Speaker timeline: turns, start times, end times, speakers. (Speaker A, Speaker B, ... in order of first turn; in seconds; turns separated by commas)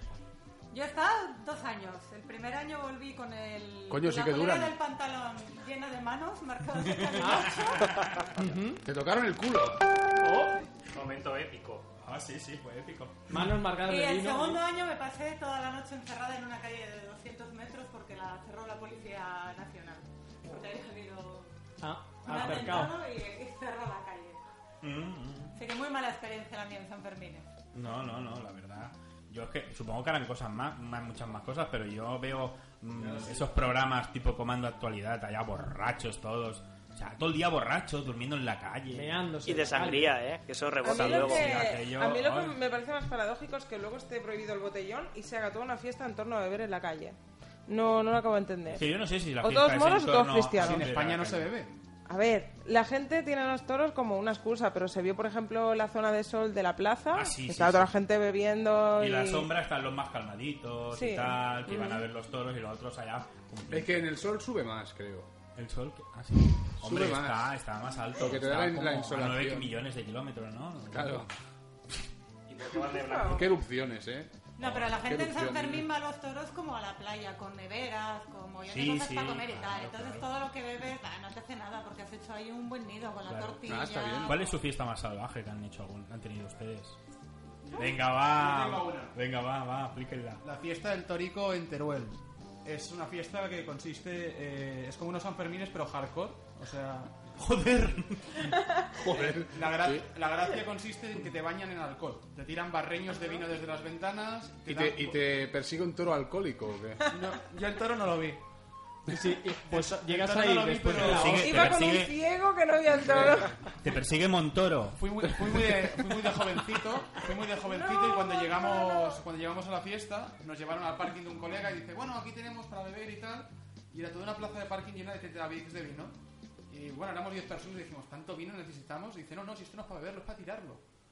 Speaker A: 0.7-7.8, Speaker B: 3.9-4.8, Speaker C: 6.8-8.4, Speaker D: 7.2-8.8, Speaker B: 8.8-9.8, Speaker D: 10.2-10.6, Speaker E: 10.9-11.9, Speaker C: 12.0-13.5, Speaker D: 13.3-14.6, Speaker A: 13.8-21.5, Speaker D: 21.8-23.0, Speaker A: 22.2-24.4, Speaker C: 22.3-22.9, Speaker C: 24.8-25.6, Speaker A: 25.6-27.5, Speaker C: 27.7-39.2, Speaker D: 38.9-40.2, Speaker F: 39.5-41.7, Speaker G: 40.8-48.8, Speaker C: 40.9-42.5, Speaker C: 48.7-51.6, Speaker G: 49.4-50.9, Speaker H: 50.6-51.7, Speaker G: 52.1-59.5, Speaker C: 57.1-57.9, Speaker C: 59.0-64.1, Speaker G: 60.9-62.0, Speaker B: 63.7-65.3, Speaker C: 65.6-71.3, Speaker B: 66.8-67.5, Speaker B: 68.2-69.8, Speaker B: 70.9-71.3, Speaker E: 72.5-73.6, Speaker G: 73.0-73.4, Speaker B: 73.2-75.9, Speaker A: 74.6-84.5, Speaker C: 78.7-80.3, Speaker C: 83.3-83.7, Speaker B: 83.6-84.4, Speaker C: 84.2-87.0, Speaker H: 87.7-89.1, Speaker C: 87.8-90.4, Speaker H: 90.4-97.1, Speaker C: 97.4-98.5, Speaker B: 99.0-100.0, Speaker H: 99.1-105.2, Speaker B: 104.7-107.0, Speaker H: 107.1-108.4, Speaker D: 109.1-111.8, Speaker H: 109.7-111.5, Speaker C: 111.0-112.1, Speaker G: 111.4-113.5, Speaker C: 113.8-115.0, Speaker H: 115.0-126.2, Speaker G: 117.7-119.2, Speaker H: 126.7-130.8